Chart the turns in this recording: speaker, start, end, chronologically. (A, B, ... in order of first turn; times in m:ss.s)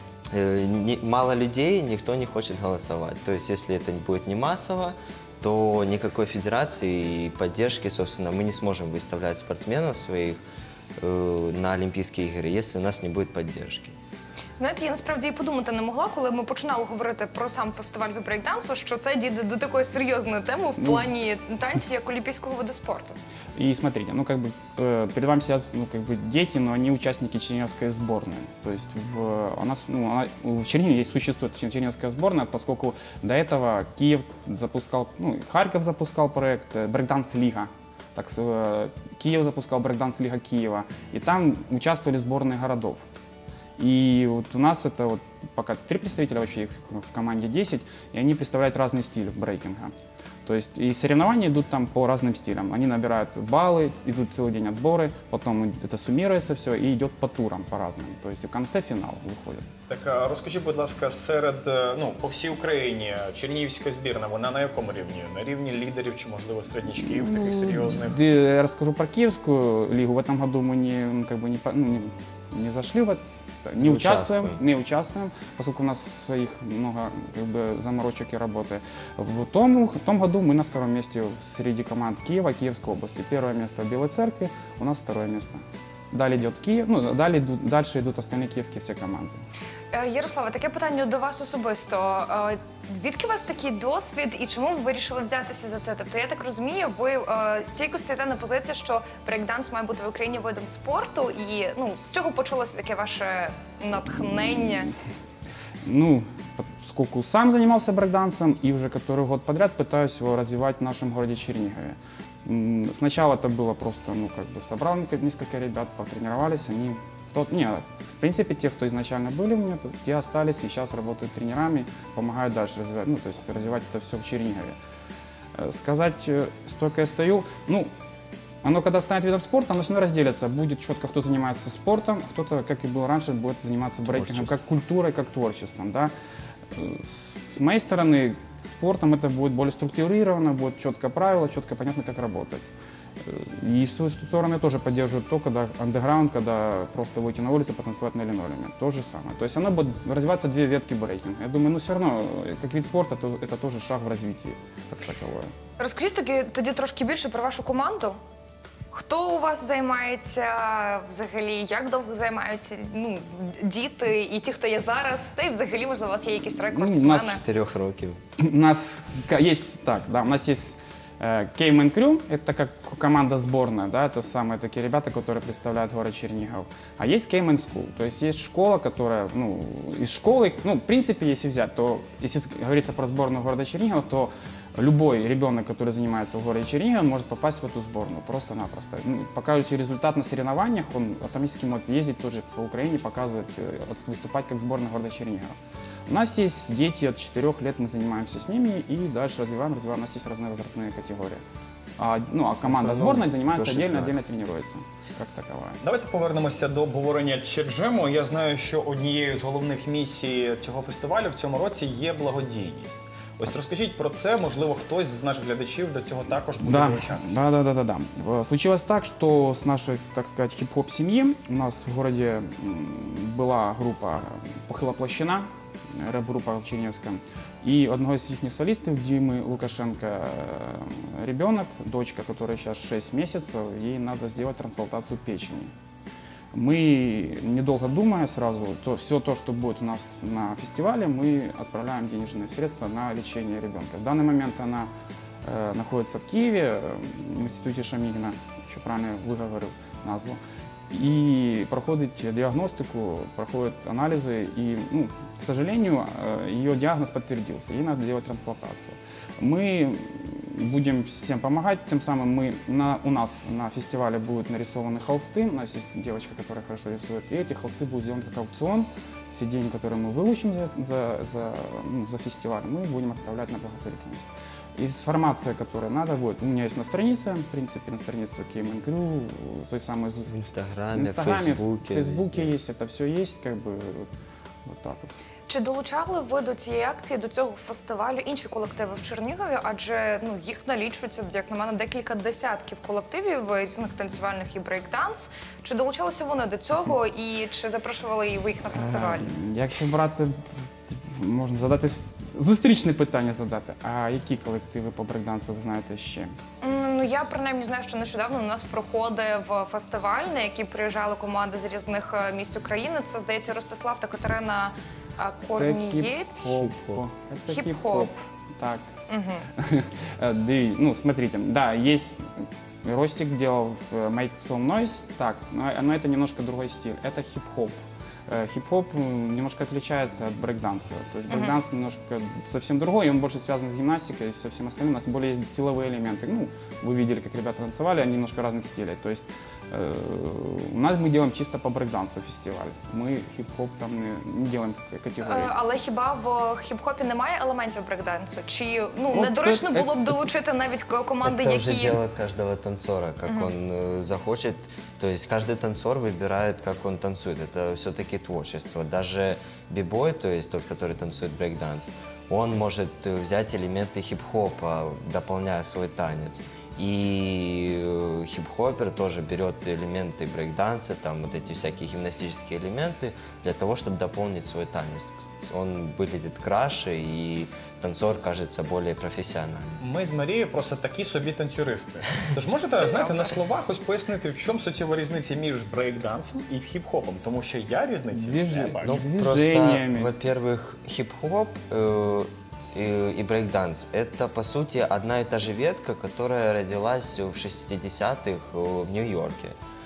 0:00.3-0:10.4 A
0:11.0-0:13.9 A
0:14.6-0:23.2 B
0:20.8-0:21.1 C
0:23.6-0:43.0 C
0:43.8-0:49.9 C
0:50.4-0:59.6 C
0:59.9-1:08.2 D
1:07.1-1:29.4 C
1:13.8-1:14.6 A
1:29.9-1:44.9 B
1:44.3-1:44.6 C
1:45.8-2:04.8 C
2:05.6-2:07.9 C
2:08.6-2:16.1 C
2:14.0-2:14.6 A
2:16.7-2:22.7 C
2:23.2-2:35.5 C
2:35.8-2:38.2 B
2:38.9-2:47.4 B
2:46.6-2:47.5 C
2:47.4-2:48.2 A
2:48.4-3:21.4 C
3:22.0-3:25.8 C
3:22.6-3:24.2 A
3:25.8-3:37.4 D
3:36.6-3:55.7 C
3:56.5-4:04.9 C
4:05.4-4:44.1 C
4:40.3-4:42.6 A
4:44.7-4:45.2 C
4:45.5-4:59.3 B
4:58.7-5:00.4 C
5:00.9-5:06.3 C
5:06.6-5:16.7 B
5:15.5-5:18.9 C
5:17.5-5:18.1 B
5:19.1-5:19.4 B
5:19.6-5:45.5 C
5:31.3-5:31.5 B
5:45.2-5:52.0 B
5:49.1-5:50.3 C
5:51.2-6:19.8 A
6:19.8-6:29.0 D
6:22.7-6:23.4 B
6:28.1-6:30.1 C
6:28.8-6:39.6 A